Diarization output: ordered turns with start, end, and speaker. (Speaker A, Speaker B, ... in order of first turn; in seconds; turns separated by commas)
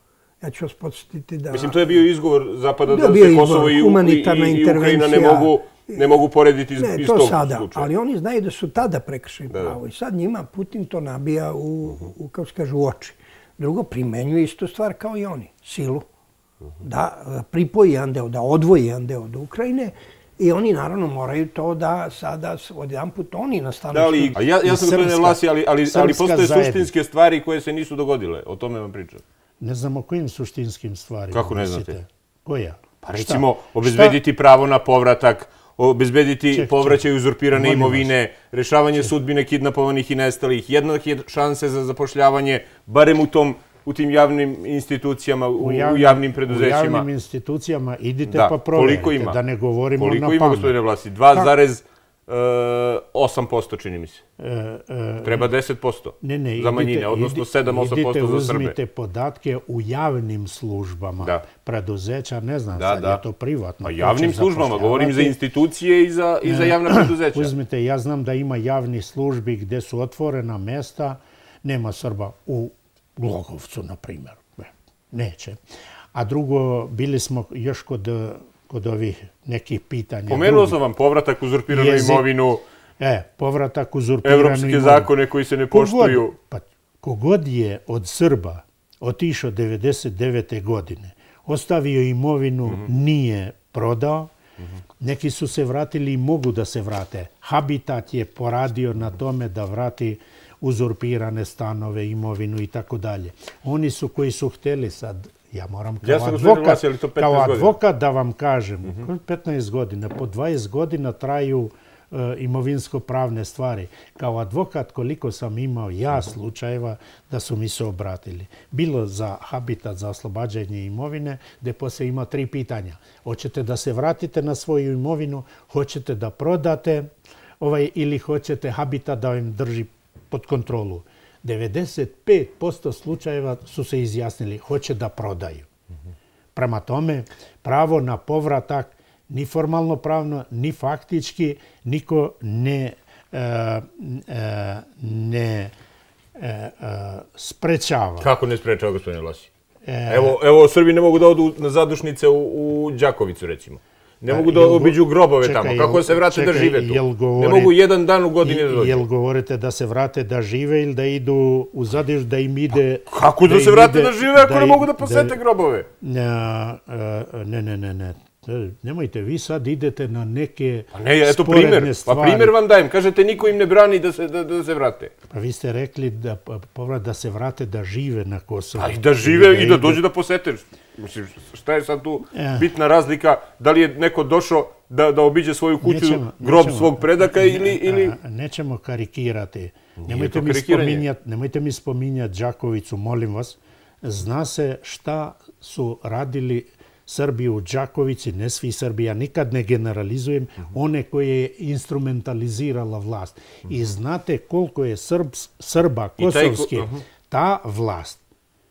Speaker A: 0.4-2.0, Speaker B: 1.5-7.9, Speaker A: 2.8-6.2, Speaker A: 6.8-16.1, Speaker B: 9.5-9.8, Speaker A: 16.8-24.4, Speaker B: 23.9-29.2, Speaker C: 24.5-26.9, Speaker C: 29.6-34.2, Speaker B: 31.3-31.9, Speaker B: 33.1-47.0, Speaker C: 36.5-38.1, Speaker C: 45.6-50.8, Speaker B: 48.3-49.4, Speaker B: 50.0-54.2, Speaker C: 54.4-55.5, Speaker B: 55.2-58.7, Speaker C: 56.2-65.4, Speaker B: 61.2-61.5, Speaker B: 62.7-63.2, Speaker B: 63.8-67.5, Speaker C: 66.4-75.6, Speaker C: 76.1-80.8, Speaker B: 80.3-82.6, Speaker C: 81.7-82.3, Speaker C: 83.0-85.1, Speaker B: 84.2-86.3, Speaker C: 85.7-94.3, Speaker C: 95.0-135.7, Speaker B: 106.0-107.8, Speaker C: 136.5-145.7, Speaker C: 146.3-148.3, Speaker B: 148.2-149.5, Speaker C: 149.8-150.4, Speaker B: 150.1-159.0, Speaker C: 154.2-157.8, Speaker C: 158.4-165.4, Speaker B: 163.1-165.8, Speaker C: 166.0-172.5, Speaker B: 170.9-175.1, Speaker C: 175.3-180.0, Speaker B: 178.8-188.1, Speaker C: 182.3-182.7, Speaker C: 185.8-208.2, Speaker B: 190.0-191.0, Speaker B: 206.2-207.0